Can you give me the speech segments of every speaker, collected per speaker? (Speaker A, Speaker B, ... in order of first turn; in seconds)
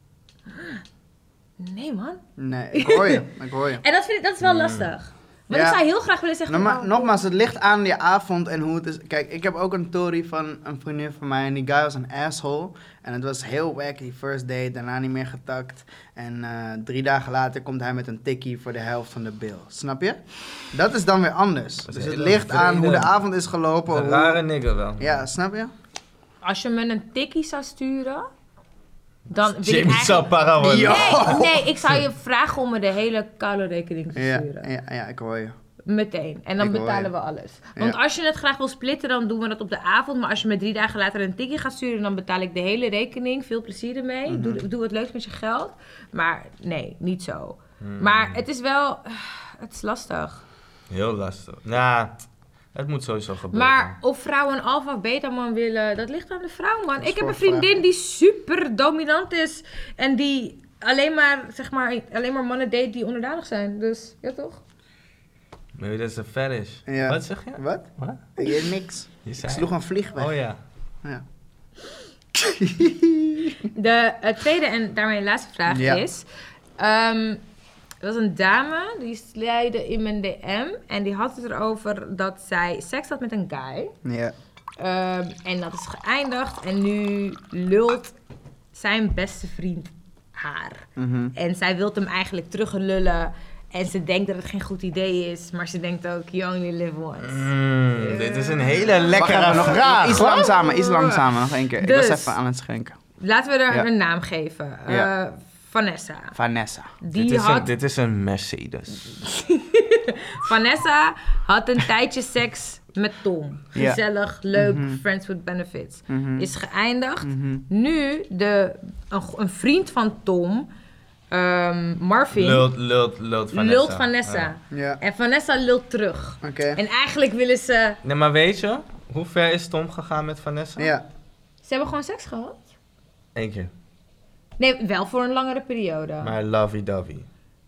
Speaker A: 0.5-0.8, 1.6-2.2, 2.7-3.2, 3.8-7.1, 26.4-28.3, 29.3-34.7, 35.9-50.4, 53.5-64.6, 73.7-76.2, 76.8-77.4, 78.0-83.9, 84.8-88.1, 88.7-102.3, 103.2-106.3, 107.0-107.7, 109.1-120.7, 121.3-122.7, 123.5-128.0, 131.6-132.6, 134.6-136.4
Speaker B: 2.4-3.8, 5.5-5.8, 6.5-20.2, 20.7-24.4, 25.0-25.7, 30.6-31.6, 34.1-35.5, 36.6-37.1, 44.3-44.6, 57.0-57.8, 66.9-70.3, 72.3-73.7, 75.7-76.0, 84.0-84.3, 91.0-91.3, 99.1-103.0, 106.3-106.9, 113.7-114.0, 114.5-115.0, 116.1-116.5, 117.2-117.6, 124.7-125.0, 126.4-126.8, 130.8-131.0
Speaker C: 4.4-4.9, 21.9-23.1, 23.9-25.2, 29.3-32.0, 47.8-48.4, 50.9-52.1, 52.7-53.9, 65.8-68.5, 69.2-70.6, 97.2-100.3, 107.1-109.2, 122.3-124.5, 128.0-130.9, 133.3-133.7, 136.2-137.2